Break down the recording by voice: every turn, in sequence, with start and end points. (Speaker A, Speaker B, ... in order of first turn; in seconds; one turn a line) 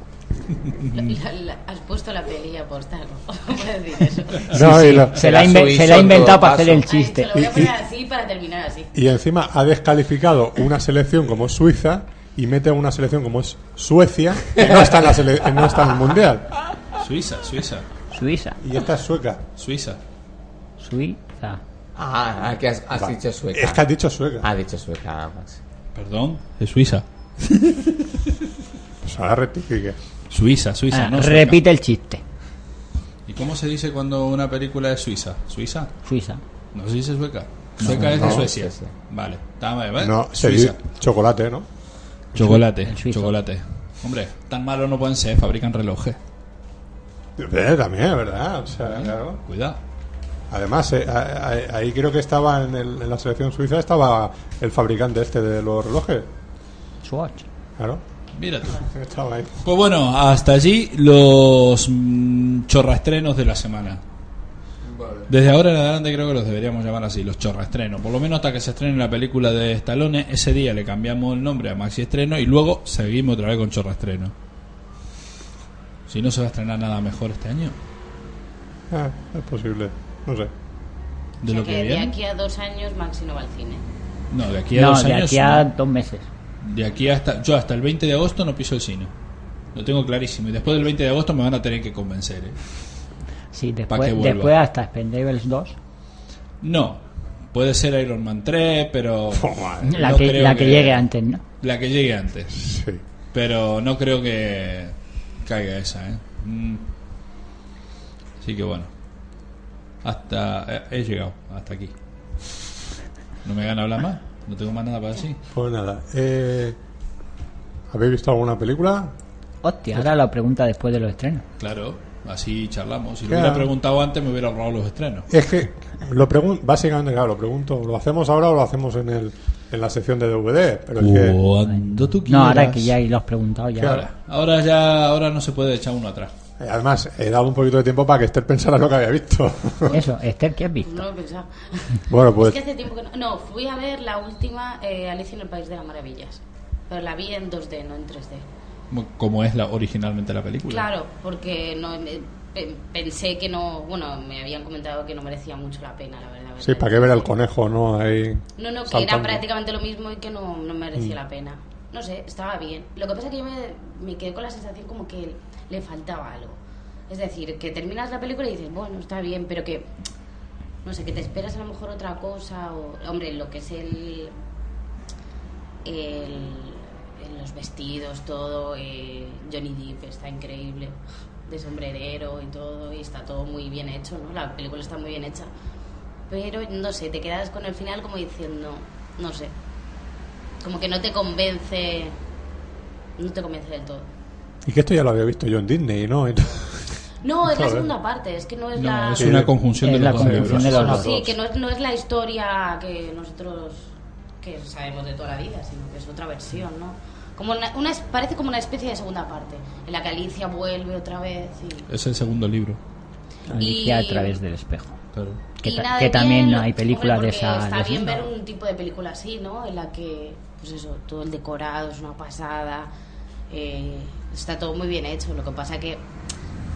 Speaker A: 0.6-1.1
Speaker B: 0.9-4.5
Speaker C: 4.5-5.2
Speaker D: 4.5-7.3
Speaker E: 5.1-6.9
Speaker B: 6.8-8.9
Speaker C: 7.3-7.7
Speaker C: 8.9-16.5
Speaker A: 16.9-17.9
Speaker D: 18.1-18.6
Speaker C: 18.6-19.4
Speaker A: 19.6-20.0
Speaker D: 20.8-21.6
Speaker E: 22.0-23.8
Speaker C: 22.9-24.5
Speaker E: 24.4-25.6
Speaker A: 25.9-28.2
Speaker C: 29.0-30.0
Speaker A: 30.3-31.6
Speaker D: 30.9-32.2
Speaker A: 33.3-35.9
Speaker D: 36.0-36.4
Speaker A: 36.7-40.8
Speaker D: 37.8-38.1
Speaker E: 37.9-38.9
Speaker C: 38.1-38.5
Speaker C: 40.0-41.7
Speaker D: 42.4-43.4
Speaker A: 42.4-46.2
Speaker C: 47.4-49.4
Speaker A: 48.9-49.8
Speaker C: 50.5-56.3
Speaker D: 57.0-57.5
Speaker C: 57.8-58.0
Speaker A: 58.3-58.9
Speaker C: 58.7-59.6
Speaker A: 59.6-64.0
Speaker E: 64.9-65.3
Speaker A: 65.3-74.3
Speaker A: 76.1-77.8
Speaker C: 78.9-80.5
Speaker A: 81.4-82.2
Speaker B: 81.5-83.8
Speaker A: 84.3-85.7
Speaker D: 84.8-86.3
Speaker A: 86.6-89.1
Speaker A: 89.7-92.6
Speaker D: 93.5-95.8
Speaker A: 93.9-94.5
Speaker A: 96.6-101.1
Speaker C: 99.3-100.0
Speaker D: 99.8-101.4
Speaker A: 101.6-102.7
Speaker C: 102.5-103.0
Speaker A: 103.3-106.8
Speaker A: 108.4-108.9
Speaker A: 110.0-111.9
Speaker A: 113.4-115.4
Speaker C: 115.5-116.8
Speaker C: 117.9-119.1
Speaker D: 119.6-121.5
Speaker A: 121.6-125.3
Speaker C: 123.3-123.7
Speaker C: 125.3-131.4
Speaker A: 131.0-132.9
Speaker D: 131.7-134.0
Speaker C: 133.8-134.1
Speaker A: 133.8-136.3
Speaker C: 136.6-140.0
Speaker D: 139.9-141.1
Speaker B: 140.8-148.5
Speaker C: 142.1-142.6
Speaker A: 148.9-150.9
Speaker B: 150.7-157.3
Speaker C: 156.6-159.4
Speaker B: 158.6-169.9
Speaker B: 170.8-174.3
Speaker B: 175.8-185.5
Speaker B: 186.3-189.5
Speaker B: 190.6-192.2
Speaker B: 193.2-194.1
Speaker C: 194.7-197.9
Speaker B: 197.2-199.4
Speaker A: 198.8-200.9
Speaker C: 199.2-199.5
Speaker D: 199.8-201.1
Speaker C: 200.1-201.3
Speaker B: 200.6-211.9
Speaker A: 211.9-212.8
Speaker D: 213.5-215.0
Speaker B: 213.6-214.4
Speaker A: 215.1-215.4
Speaker D: 215.6-218.3
Speaker B: 215.6-222.9
Speaker B: 223.5-226.1